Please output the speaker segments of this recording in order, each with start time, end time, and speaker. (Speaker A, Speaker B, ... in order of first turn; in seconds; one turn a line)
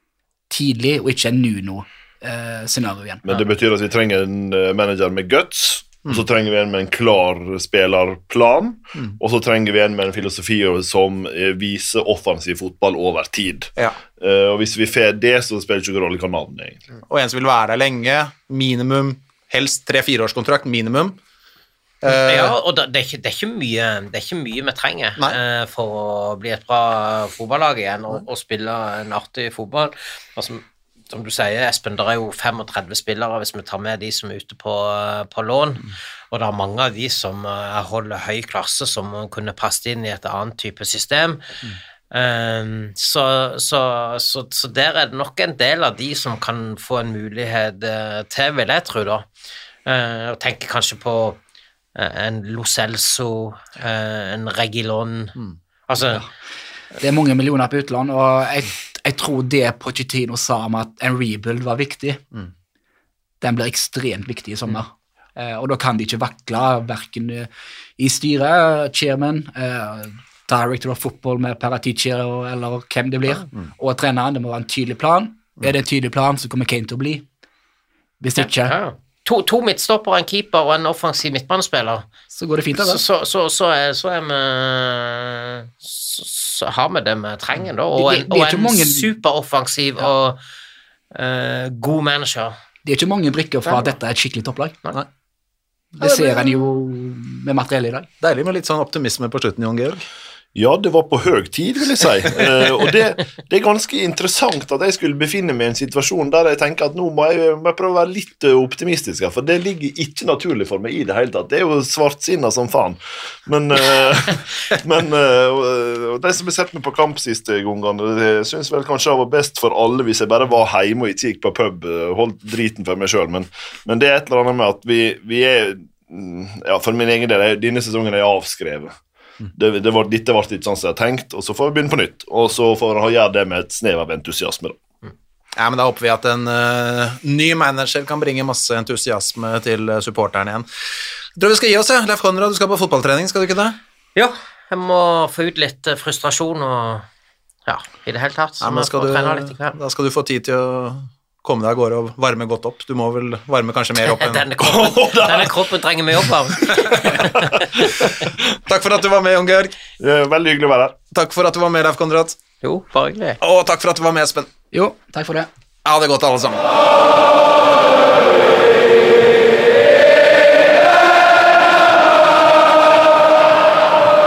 Speaker A: 0.5-3.2
Speaker B: 3.2-16.9
Speaker C: 17.1-21.2
Speaker C: 22.0-22.6
Speaker D: 22.1-41.4
Speaker D: 42.1-49.3
Speaker D: 49.9-51.4
Speaker D: 52.0-55.4
Speaker D: 55.9-56.3
Speaker A: 57.0-62.2
Speaker A: 63.4-77.3
Speaker A: 78.2-78.8
Speaker D: 78.4-82.1
Speaker A: 82.3-83.0
Speaker D: 82.8-90.4
Speaker A: 87.9-89.1
Speaker D: 91.1-92.5
Speaker A: 92.8-94.8
Speaker A: 96.0-98.1
Speaker C: 98.2-100.1
Speaker B: 100.5-128.9
Speaker B: 129.6-134.8
Speaker C: 135.6-140.7
Speaker C: 141.4-143.8
Speaker D: 144.2-147.1
Speaker D: 147.7-149.8
Speaker C: 148.6-154.5
Speaker D: 154.0-158.2
Speaker B: 154.6-155.6
Speaker C: 156.7-157.2
Speaker B: 157.6-157.9
Speaker C: 158.7-159.8
Speaker B: 160.0-161.0
Speaker C: 161.1-162.4
Speaker D: 162.6-163.4
Speaker C: 163.4-164.5
Speaker A: 164.7-165.5
Speaker C: 165.8-166.7